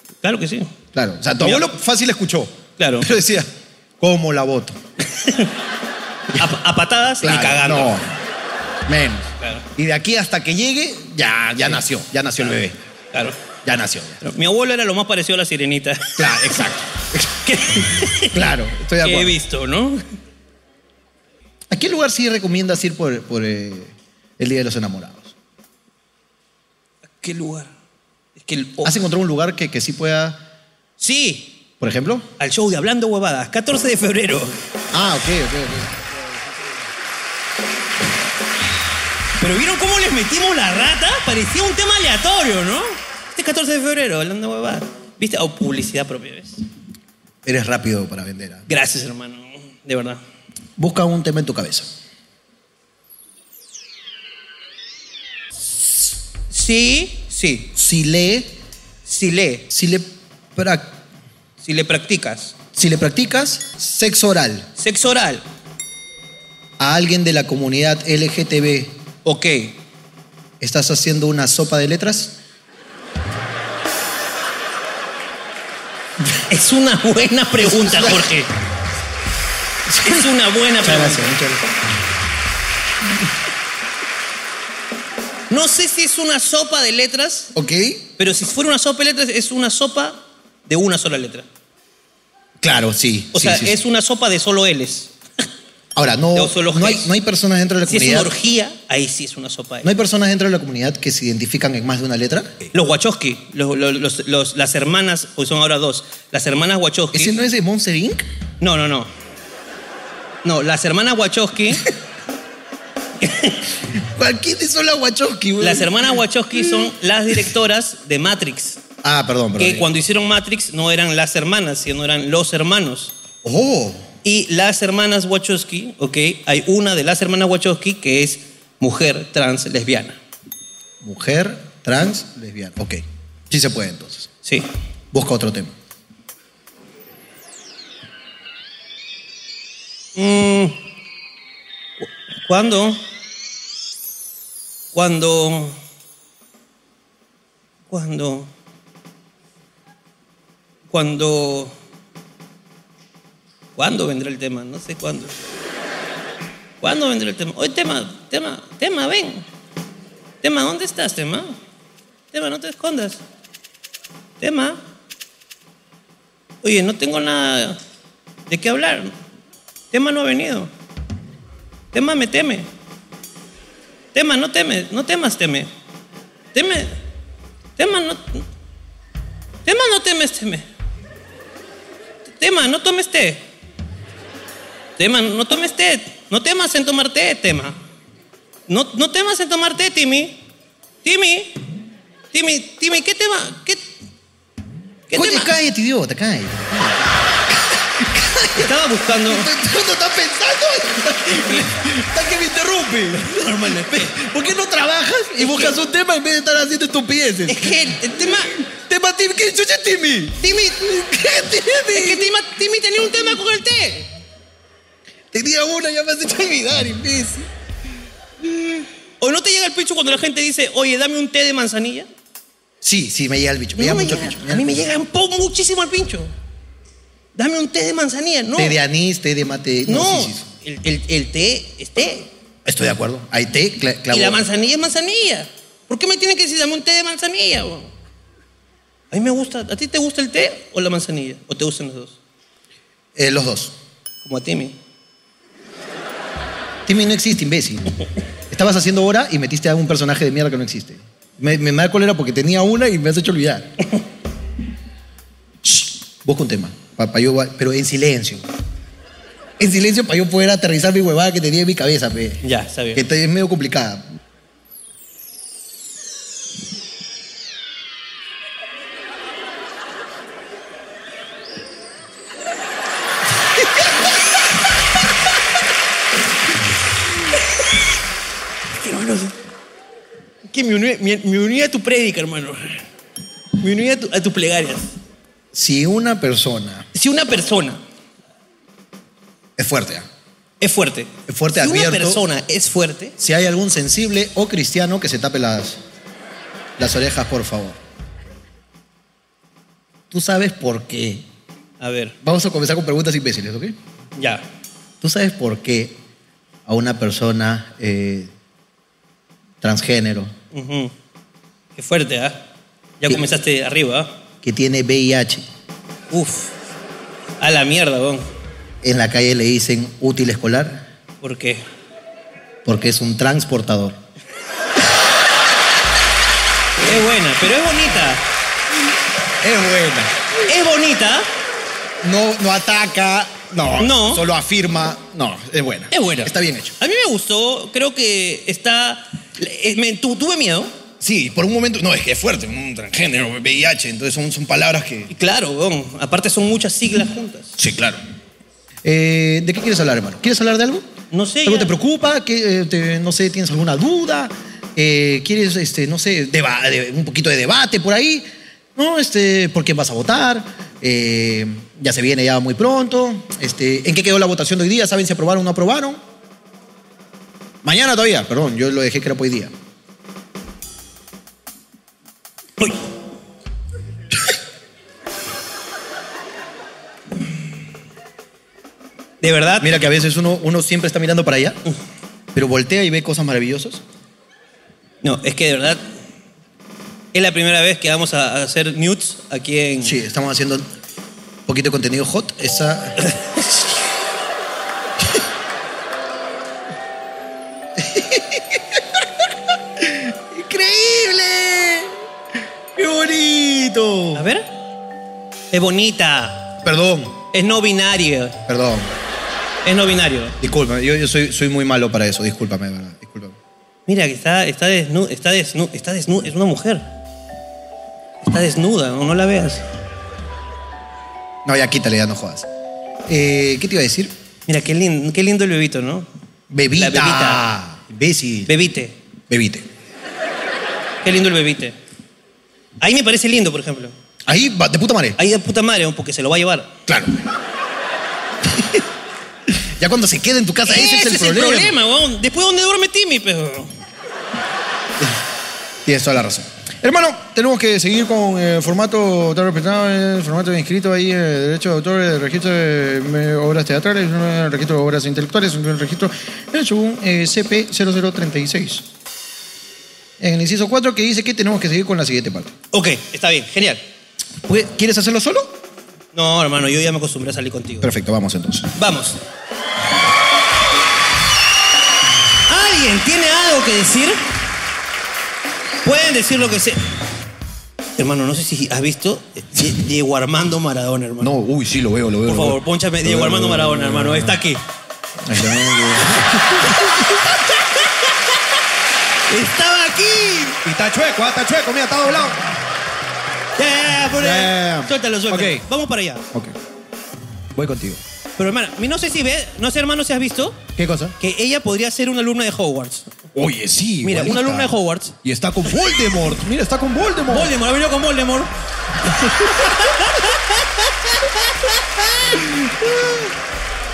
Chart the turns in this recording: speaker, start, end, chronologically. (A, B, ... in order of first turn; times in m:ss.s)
0:00.2-0:00.7 A
0:00.9-0:04.8 B
0:01.4-0:01.7 A
0:02.8-0:03.1 A
0:05.1-0:05.5 A
0:06.4-0:07.9 A
0:07.2-0:08.1 B
0:08.9-0:12.8 B
0:09.4-0:09.6 A
0:13.1-0:13.4 A
0:13.6-0:14.2 B
0:14.2-0:16.3 A
0:16.2-0:17.4 B
0:17.4-0:18.4 A
0:18.3-0:19.4 B
0:19.0-0:20.0 A
0:21.7-0:25.3 B
0:27.2-0:27.7 A
0:28.4-0:29.0 A
0:28.8-0:30.4 B
0:31.0-0:31.6 A
0:31.8-0:32.3 B
0:32.4-0:34.6 A
0:34.9-0:36.0 B
0:39.4-0:46.6 A
0:47.4-0:48.6 B
0:48.7-0:50.2 A
0:50.8-0:51.9 B
0:56.5-0:57.7 A
0:57.8-0:58.6 B
0:59.1-0:59.7 A
0:59.7-1:01.0 B
1:01.6-1:02.6 A
1:02.7-1:04.7 B
1:04.8-1:05.4 A
1:06.8-1:09.0 B
1:09.2-1:09.8 A
1:10.6-1:12.4 B
1:16.5-1:18.5 A
1:17.6-1:18.2 B
1:19.9-1:21.6 B
1:20.0-1:21.4 A
1:25.5-1:27.5 A
1:27.6-1:28.0 B
1:28.2-1:31.5 A
1:32.6-1:33.8 B
1:33.3-1:35.1 A
1:36.0-1:38.3 B
1:36.4-1:37.1 A
1:37.9-1:39.9 A
1:39.8-1:42.6 B
1:42.7-1:47.4 A
1:47.1-1:48.3 B
1:48.6-1:49.1 A
1:50.4-1:51.9 A
1:53.2-1:53.6 A
1:54.0-1:56.0 B
1:55.6-1:58.8 A
1:59.0-1:59.9 B
1:59.6-2:03.1 A
2:03.4-2:04.0 B
2:04.2-2:10.2 A
2:11.0-2:14.3 B
2:14.4-2:14.7 A
2:15.1-2:15.8 B
2:20.2-2:20.8 A
2:22.0-2:23.0 A
2:24.9-2:25.8 A
2:27.9-2:28.5 A
2:30.9-2:31.7 A
2:33.8-2:35.4 A
2:36.8-2:39.4 A
2:40.4-2:41.6 A
2:42.3-2:43.2 A
2:44.4-2:44.8 A
2:46.6-2:47.8 A
2:48.5-2:49.1 A
2:49.9-2:50.7 A
2:51.9-2:52.7 A
2:54.1-2:55.7 A
2:56.5-2:57.0 A
2:57.8-2:58.4 A
2:59.7-3:00.6 A
3:02.4-3:03.5 A
3:05.0-3:07.8 A
3:08.7-3:10.4 A
3:11.0-3:11.6 A
3:12.3-3:13.9 A
3:15.1-3:15.5 A
3:15.1-3:18.7 B
3:18.6-3:19.5 A
3:19.2-3:27.9 B
3:23.2-3:24.2 A
3:25.4-3:25.8 A
3:27.5-3:28.5 A
3:28.6-3:32.3 B
3:30.4-3:30.8 A
3:31.9-3:34.1 A
3:35.3-3:37.5 B
3:39.2-3:42.1 A
3:42.8-3:44.8 B
3:43.8-3:46.3 A
3:47.4-3:48.8 A
3:48.6-3:50.5 B
3:49.9-3:52.3 A
3:52.6-3:54.5 B
3:54.1-3:57.9 A
3:59.1-4:02.2 A
4:03.2-4:03.8 B
4:04.2-4:04.8 A
4:06.9-4:07.9 B
4:08.5-4:13.7 B
4:15.6-4:18.5 B
4:19.6-4:22.4 B
4:22.4-4:23.0 A
4:22.9-4:24.1 B
4:38.8-4:39.3 A
4:40.5-4:42.8 A
4:43.6-4:44.9 A
4:45.5-4:46.9 B
4:46.9-4:47.8 A
4:49.6-4:50.1 B
4:50.6-4:53.2 A
4:51.3-4:52.2 B
4:53.2-4:55.8 B
4:56.8-4:57.8 B
5:00.1-5:01.3 B
5:01.8-5:02.2 A
5:02.2-5:03.8 B
5:04.2-5:04.4 A
5:05.0-5:06.0 B
5:06.7-5:08.3 B
5:09.6-5:10.3 B
5:10.5-5:10.9 A
5:11.8-5:12.4 A
5:13.0-5:14.2 A
5:14.4-5:15.5 B
5:16.1-5:16.5 A
5:17.4-5:18.3 A
5:18.8-5:20.9 B
5:21.2-5:21.6 A
5:22.6-5:24.0 B
5:26.8-5:28.2 A
5:29.4-5:30.1 B
5:30.5-5:31.3 A
5:32.0-5:36.8 B
5:33.8-5:34.2 A
5:35.9-5:40.7 A
5:41.0-5:45.1 B
5:45.1-5:47.6 A
5:47.6-5:48.0 B
5:48.8-5:50.9 B
5:51.1-5:51.7 A
5:51.4-6:06.0 B
6:07.6-6:09.5 B
6:19.2-6:19.8 A
6:19.6-6:21.6 B
6:22.3-6:23.8 B
6:25.0-6:25.8 A
6:27.1-6:30.0 A
6:29.8-6:30.7 B
6:31.5-6:33.0 B
6:37.8-6:38.8 B
6:39.8-6:41.9 B
6:42.8-6:44.2 B
6:44.1-6:44.5 A
6:45.5-6:46.6 A
6:46.6-6:47.2 B
6:47.3-6:48.4 A
6:48.5-6:48.9 B
6:49.6-6:50.4 A
6:50.4-6:53.4 B
6:53.9-6:56.9 A
6:58.2-6:59.6 A
7:01.4-7:02.5 B
7:03.1-7:04.1 B
7:04.5-7:06.1 A
7:06.5-7:08.5 B
7:06.8-7:07.4 A
7:08.5-7:09.0 A
7:09.3-7:09.7 B
7:11.0-7:11.8 A
7:12.8-7:13.9 A
7:14.3-7:15.2 B
7:15.2-7:16.7 A
7:16.9-7:17.2 B
7:18.4-7:18.8 B
7:19.5-7:21.8 B
7:20.7-7:23.7 A
7:25.8-7:38.9 B
7:40.2-7:42.6 B
7:42.7-7:43.8 A
7:44.5-7:45.6 B
7:46.1-7:47.9 A
7:47.8-7:48.7 B
7:48.8-7:49.2 A
7:52.5-7:54.2 A
7:55.8-7:56.8 A
7:58.0-8:01.3 A
8:01.2-8:04.4 B
8:02.3-8:04.6 A
8:05.2-8:07.0 B
8:06.2-8:07.0 A
8:09.3-8:10.6 A
8:10.6-8:12.4 B
8:13.6-8:16.2 A
8:14.2-8:15.6 B
8:17.6-8:18.0 B
8:18.4-8:20.6 A
8:20.8-8:21.2 B
8:21.2-8:23.1 A
8:23.4-8:27.5 B
8:24.0-8:25.2 A
8:27.3-8:28.5 A
8:29.4-8:30.7 A
8:31.4-8:31.7 A
8:32.6-8:33.3 B